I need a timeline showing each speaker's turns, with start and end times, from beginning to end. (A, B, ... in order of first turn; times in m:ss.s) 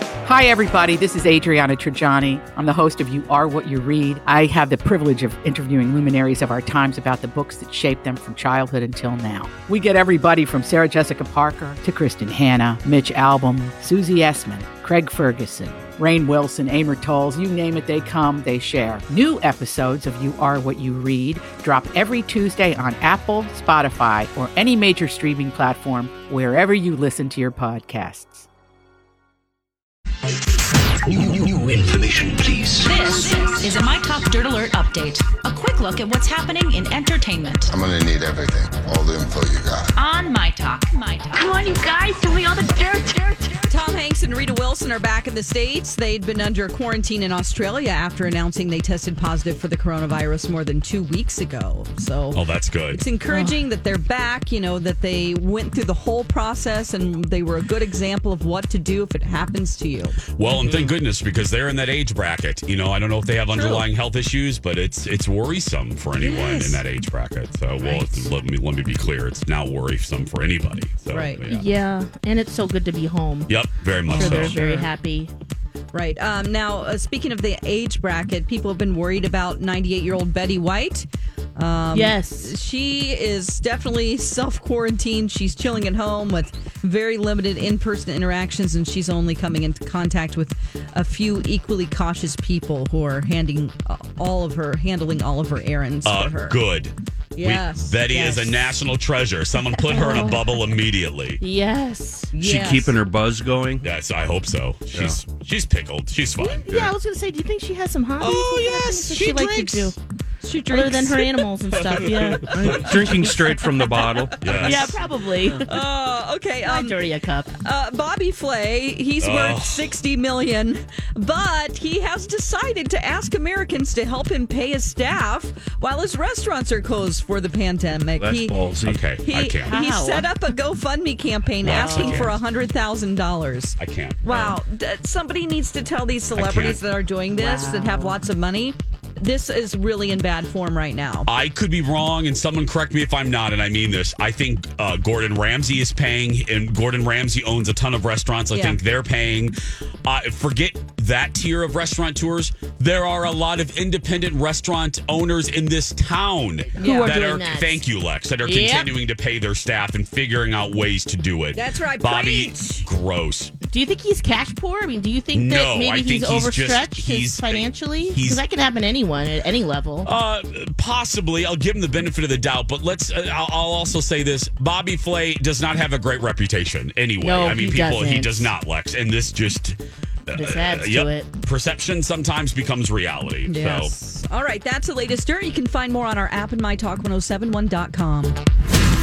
0:00.2-0:28.5 A
0:31.0-0:33.2 B
0:32.8-0:37.7 C
0:37.7-0:39.9 D
0:40.0-0:41.5 C
0:41.3-0:43.7 E
0:43.7-0:52.4 F
0:52.3-0:53.0 G
0:52.9-1:00.2 F
0:53.3-0:53.6 H
1:00.4-1:11.6 G
1:00.7-1:00.9 H
1:03.6-1:03.8 F
1:06.2-1:06.8 F
1:07.8-1:08.3 H
1:11.1-1:11.4 F
1:11.5-1:13.5 H
1:13.5-1:14.6 G
1:14.1-1:15.3 H
1:14.1-1:14.9 F
1:15.9-1:36.6 F
1:21.9-1:22.5 H
1:36.0-1:41.4 G
1:37.4-1:38.3 F
1:38.1-1:38.6 H
1:39.9-1:40.5 H
1:39.9-1:40.3 F
1:41.4-1:42.3 H
1:42.3-1:43.0 F
1:42.4-1:43.9 I
1:43.8-1:46.9 G
1:44.9-1:45.2 I
1:46.4-1:50.0 H
1:48.3-1:49.7 F
1:50.4-1:51.4 F
1:50.7-1:52.5 H
1:51.9-1:52.7 G
1:52.0-1:54.6 F
1:52.5-1:54.9 I
1:54.4-1:55.0 G
1:54.6-1:55.6 H
1:55.6-1:57.0 F
1:56.6-1:57.5 H
1:57.6-2:08.7 F
1:59.2-2:00.0 G
2:08.2-2:09.1 I
2:08.8-2:09.8 G
2:09.2-2:21.3 F
2:09.6-2:10.3 H
2:11.6-2:12.4 G
2:11.6-2:12.3 H
2:13.8-2:14.6 G
2:16.4-2:16.8 G
2:17.3-2:18.2 H
2:21.3-2:43.5 G
2:36.8-2:37.2 F
2:36.8-2:37.8 H
2:38.4-2:38.9 H
2:41.6-2:42.8 F
2:43.7-2:50.1 H
2:45.3-2:48.4 G
2:50.0-2:59.8 G
2:57.2-2:58.5 H
3:00.3-3:03.9 G
3:00.3-3:01.3 H
3:03.5-3:08.4 F